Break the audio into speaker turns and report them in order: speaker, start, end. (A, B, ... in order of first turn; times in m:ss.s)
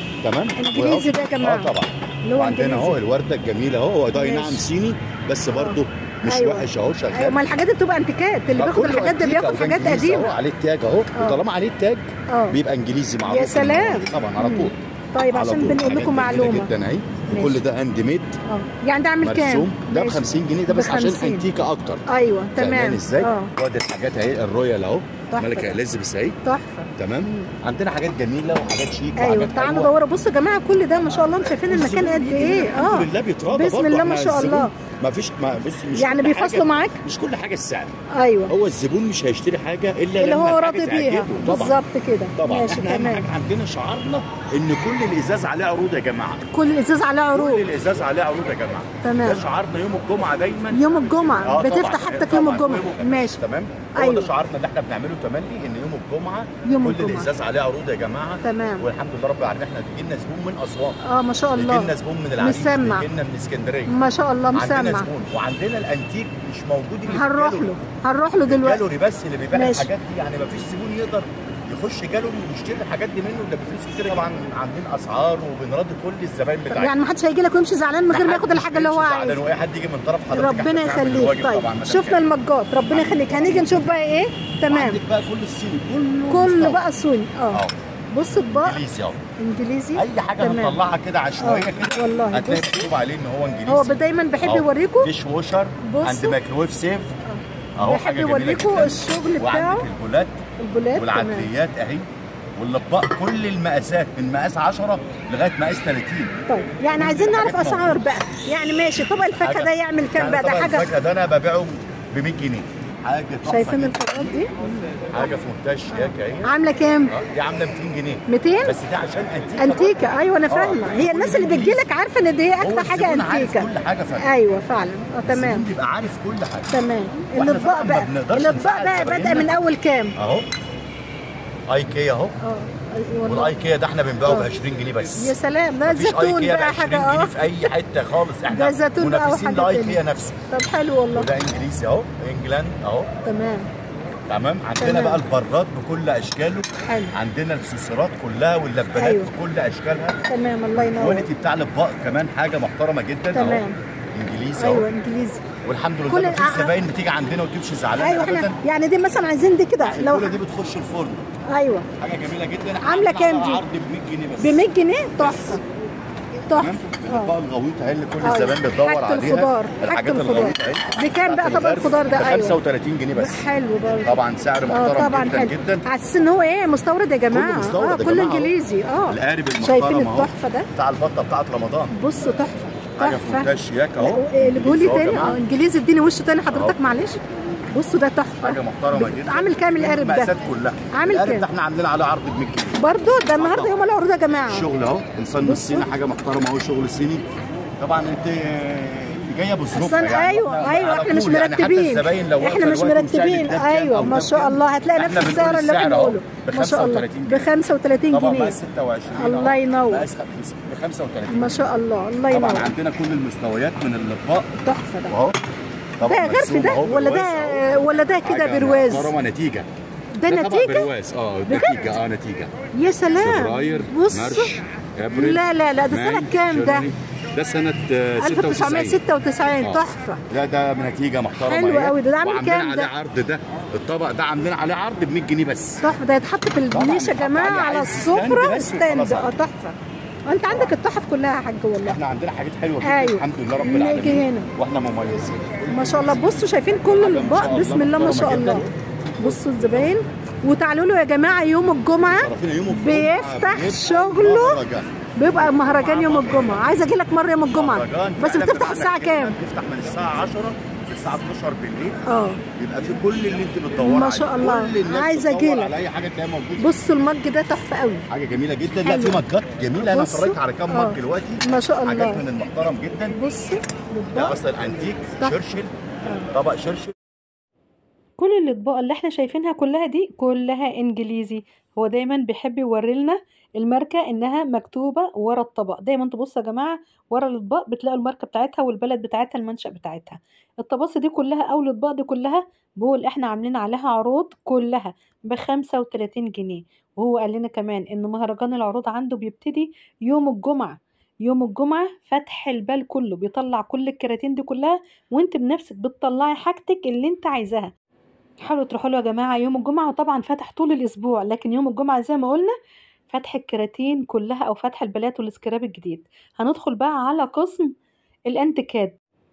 0:00.2-0:07.4 A
0:00.6-0:01.7 B
0:02.2-0:03.0 B
0:04.1-0:04.6 B
0:05.5-0:10.3 B
0:08.5-0:18.4 A
0:12.3-0:12.6 B
0:13.2-0:16.7 B
0:17.3-0:17.6 B
0:18.5-0:21.4 B
0:19.2-0:22.0 A
0:22.1-0:23.5 B
0:22.5-0:26.4 A
0:25.3-0:25.7 B
0:26.4-0:27.5 B
0:27.0-0:29.9 A
0:29.2-0:34.7 B
0:31.7-0:37.9 A
0:35.9-0:37.0 B
0:38.1-0:38.5 B
0:38.5-0:41.8 A
0:40.2-0:43.3 B
0:42.4-0:46.5 A
0:46.5-0:47.7 B
0:47.3-1:01.0 A
0:49.0-0:49.4 B
0:50.7-0:53.4 B
0:54.0-0:54.3 B
0:56.6-0:57.3 B
0:58.4-0:58.8 B
1:01.0-1:03.0 B
1:01.6-1:03.9 A
1:03.9-1:05.1 B
1:04.5-1:07.8 A
1:07.1-1:08.8 B
1:08.5-1:16.9 A
1:09.5-1:09.9 B
1:16.7-1:19.4 B
1:18.1-1:22.2 A
1:20.3-1:25.0 B
1:22.9-1:24.0 A
1:24.7-1:27.8 A
1:26.3-1:27.6 B
1:28.1-1:28.8 B
1:28.5-1:29.2 A
1:29.4-1:30.8 B
1:30.0-1:37.1 A
1:31.4-1:32.9 B
1:33.7-1:35.1 B
1:35.8-1:36.4 B
1:37.3-1:39.8 B
1:37.8-1:40.4 A
1:40.6-1:41.5 B
1:40.9-1:42.0 A
1:42.6-1:46.3 A
1:46.5-1:50.9 B
1:46.9-1:48.1 A
1:49.0-1:54.5 A
1:53.4-1:55.3 B
1:55.1-1:56.5 A
1:55.9-1:57.1 B
1:57.1-2:01.9 A
1:58.3-1:58.8 B
1:59.6-2:05.7 B
2:02.6-2:04.3 A
2:05.2-2:06.7 A
2:06.7-2:10.1 B
2:07.3-2:09.5 A
2:10.2-2:10.5 A
2:11.7-2:12.3 A
2:12.4-2:13.6 B
2:13.2-2:20.4 A
2:15.2-2:17.3 B
2:18.5-2:21.3 B
2:21.1-2:23.1 A
2:23.2-2:23.7 B
2:24.3-2:30.2 A
2:24.8-2:25.2 B
2:26.9-2:27.1 B
2:29.0-2:29.3 B
2:30.3-2:31.2 B
2:30.8-2:33.6 A
2:33.3-2:33.8 B
2:34.2-2:34.9 A
2:34.6-2:35.4 B
2:35.6-2:38.6 A
2:36.1-2:36.7 B
2:38.0-2:40.4 B
2:39.8-2:41.3 A
2:41.5-2:41.9 B
2:42.0-2:44.6 A
2:42.8-2:43.6 B
2:44.4-2:45.6 B
2:45.2-2:45.6 A
2:46.5-2:47.3 B
2:46.5-2:53.4 A
2:48.2-2:52.6 B
2:53.1-2:54.2 B
2:54.0-2:55.8 A
2:54.7-3:00.7 B
2:57.3-2:58.5 A
2:59.1-3:01.9 A
3:01.9-3:07.2 B
3:03.0-3:05.4 A
3:06.5-3:06.8 A
3:07.7-3:10.3 B
3:08.4-3:12.8 A
3:10.9-3:11.4 B
3:12.8-3:14.6 B
3:13.3-3:13.7 A
3:14.4-3:17.2 A
3:15.4-3:15.9 B
3:17.8-3:27.5 A
3:19.7-3:28.6 B
3:28.1-3:31.6 A
3:29.1-3:30.0 B
3:31.3-3:32.7 B
3:32.3-3:35.3 A
3:34.6-3:35.1 B
3:36.0-3:37.6 A
3:36.0-3:39.1 B
3:38.2-3:39.7 A
3:40.1-3:40.9 B
3:40.3-3:42.5 A
3:41.5-3:42.0 B
3:42.8-3:44.5 B
3:43.2-3:49.0 A
3:45.1-3:46.8 B
3:48.2-3:50.2 B
3:49.5-3:55.8 A
3:51.4-3:52.9 B
3:55.8-4:02.0 B
3:56.7-3:59.3 A
4:01.8-4:06.2 A
4:02.8-4:04.5 B
4:05.7-4:08.6 B
4:06.8-4:09.4 A
4:09.2-4:14.6 B
4:12.0-4:16.6 A
4:15.2-4:19.4 B
4:17.5-4:22.0 A
4:22.0-4:22.4 B
4:22.5-4:26.8 A
4:23.8-4:25.7 B
4:26.6-4:28.1 B
4:28.1-4:33.2 A
4:28.8-4:29.2 B
4:29.9-4:32.2 B
4:33.1-4:34.4 B
4:34.1-4:35.7 A
4:36.3-4:36.9 A
4:38.2-5:07.7 B
5:08.4-5:12.5 B
5:13.1-5:17.7 B
5:18.3-5:18.9 B